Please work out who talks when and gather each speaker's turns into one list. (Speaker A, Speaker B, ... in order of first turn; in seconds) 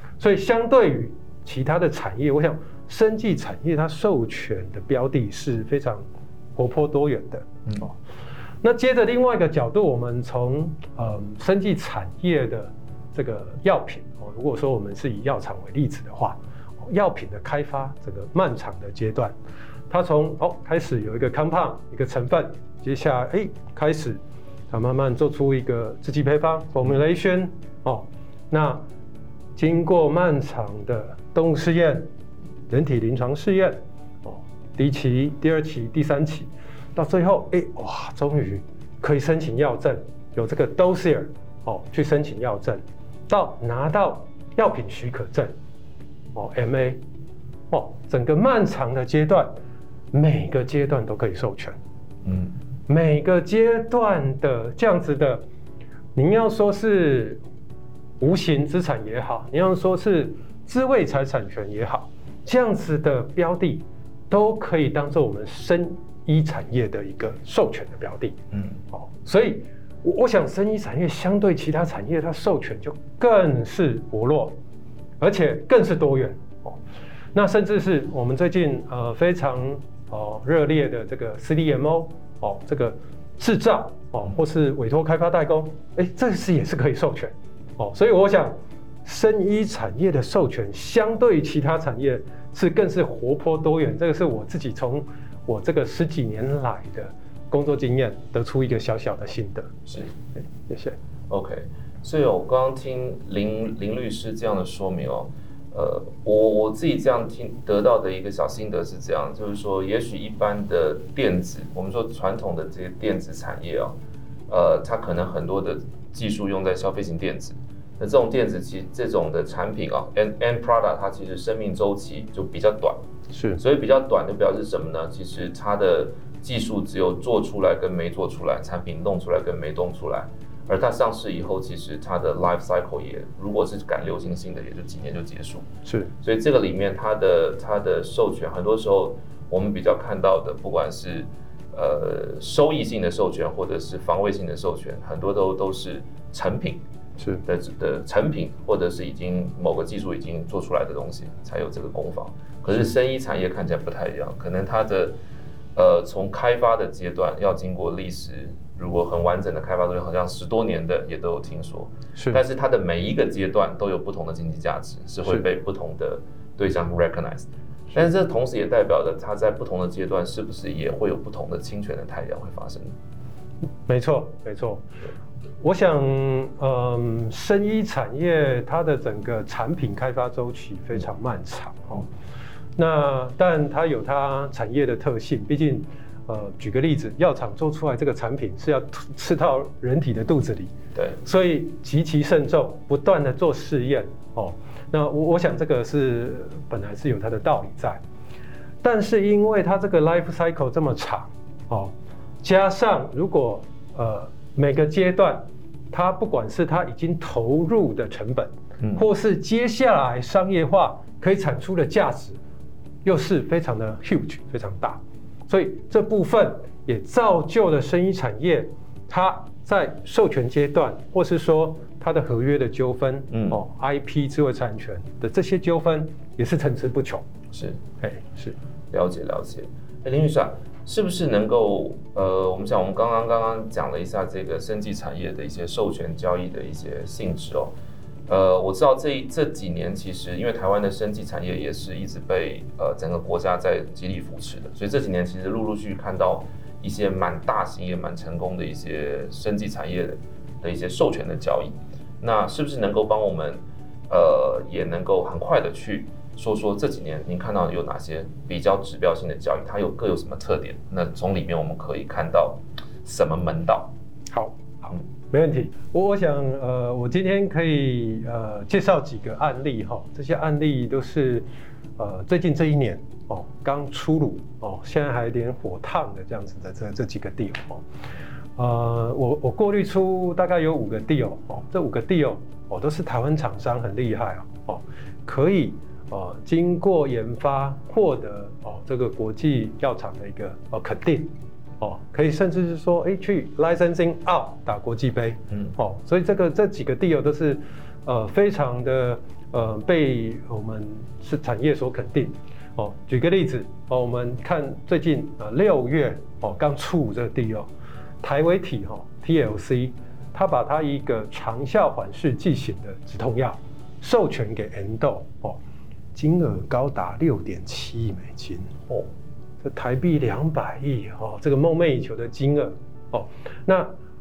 Speaker A: 0.2-8.0, 8.6-19.3, 19.9-28.8, 29.6-32.1, 32.7-45.5, 46.3-47.0, 47.7-49.5, 50.1-51.8, 52.9-55.4, 56.1-57.4, 58.2-74.6, 75.2-76.8, 77.3-101.0, 123.3-123.6, 135.8-136.1, 147.2-147.4, 162.2-162.4, 173.9-174.8, 175.6-182.1, 182.8-198.0, 198.8-212.4, 213.0-227.2, 228.0-228.5, 264.3-271.4, 272.0-277.8, 278.6-307.7, 308.2-315.6, 316.1-318.9, 319.6-323.9
Speaker B: 52.2-52.5, 68.5-68.8, 101.3-114.0, 114.5-123.0, 123.6-135.7, 136.2-146.8, 147.4-155.2, 155.7-172.9, 223.3-223.6, 227.5-227.8, 228.9-237.7, 238.3-263.9